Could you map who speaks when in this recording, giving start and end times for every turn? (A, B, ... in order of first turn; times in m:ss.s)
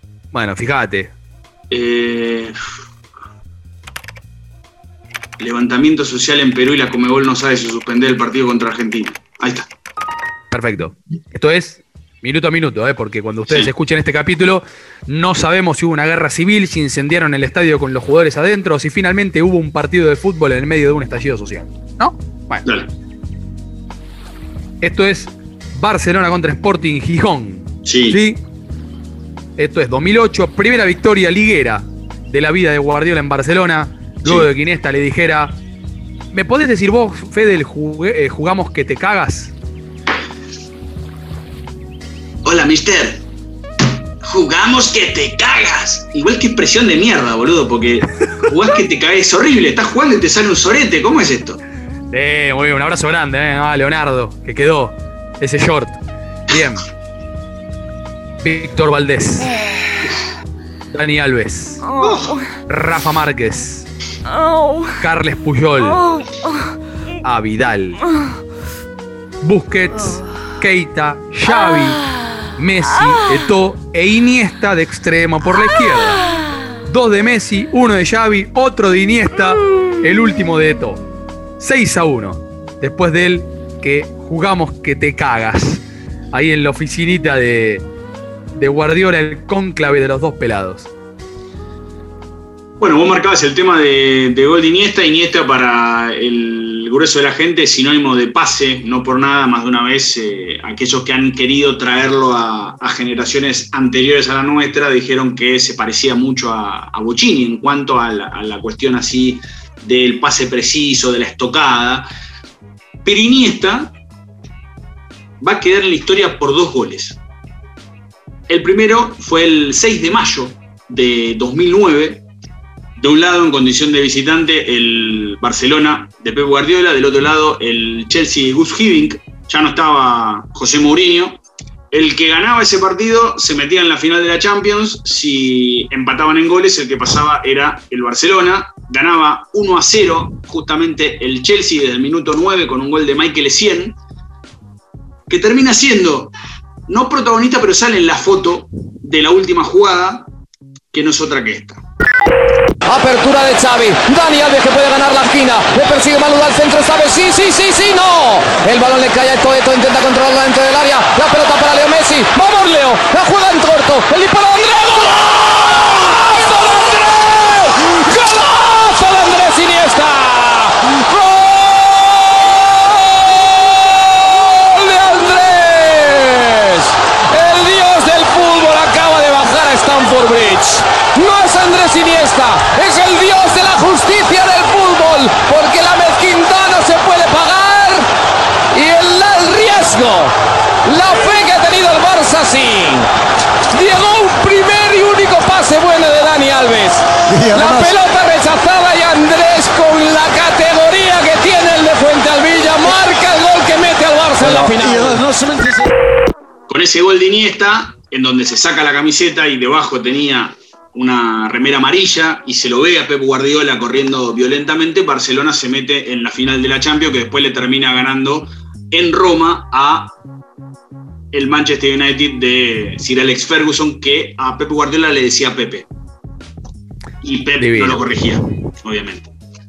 0:00.3-0:01.1 A
0:01.7-0:02.6 B
0:05.4-0:09.7 B
0:10.5-0:22.6 A
0:22.6-0:22.9 B
0:24.8-0:28.4 A
0:27.8-0:28.2 B
0:29.6-0:35.6 A
0:34.2-0:34.5 B
0:36.3-0:39.5 A
0:42.4-0:43.2 B
0:44.2-0:51.6 B
0:52.1-0:56.8 A
0:58.4-0:59.5 A
1:00.9-1:01.8 A
1:02.0-1:02.4 B
1:02.7-1:03.9 A
1:05.0-1:06.0 A
1:07.2-1:08.0 A
1:09.4-1:12.0 A
1:12.6-1:16.2 A
1:16.9-1:21.0 A
1:21.6-1:27.8 A
1:28.6-1:30.9 A
1:32.8-1:52.1 B
1:53.0-1:53.9 B
1:55.4-1:57.2 B
1:58.5-2:02.2 B
2:03.0-2:11.4 B
2:11.9-2:24.0 B
2:25.3-2:26.3 B
2:26.9-2:30.3 B
2:30.9-2:31.8 B
2:32.9-3:08.1 C
3:08.7-3:10.3 C
3:10.8-3:13.1 C
3:13.7-3:25.2 C
3:26.7-3:40.1 B
3:41.3-3:45.9 B
3:47.2-3:49.3 B
3:47.6-3:48.2 A